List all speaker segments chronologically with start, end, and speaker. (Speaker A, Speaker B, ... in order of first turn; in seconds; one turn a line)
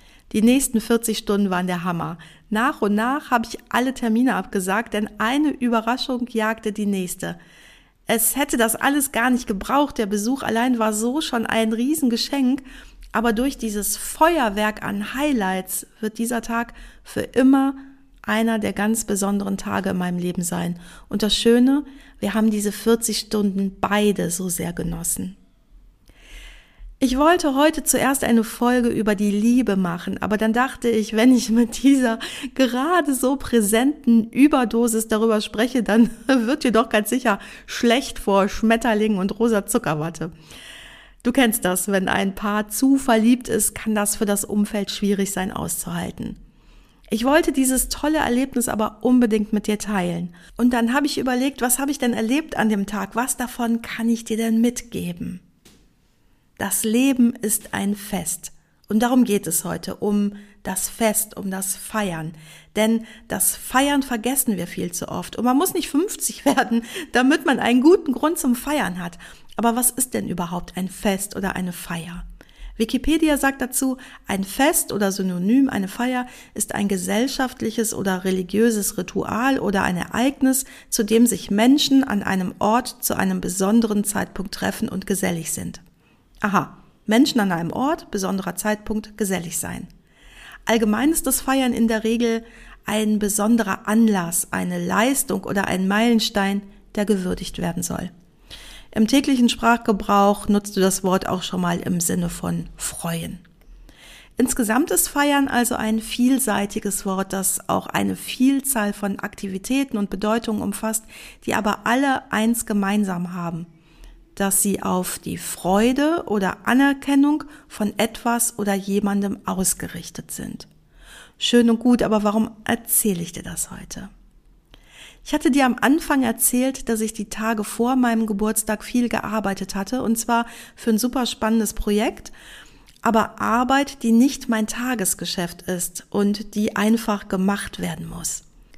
Speaker A: 0.3-7.4
Speaker A: 8.1-25.4
Speaker A: 27.0-40.3
Speaker A: 41.2-46.4
Speaker A: 47.1-55.4
Speaker A: 56.6-72.3
Speaker A: 72.8-85.8
Speaker A: 86.4-89.9
Speaker A: 90.7-98.1
Speaker A: 98.9-103.4
Speaker A: 104.4-113.7
Speaker A: 114.4-120.7
Speaker A: 121.4-124.1
Speaker A: 125.2-132.3
Speaker A: 133.0-138.4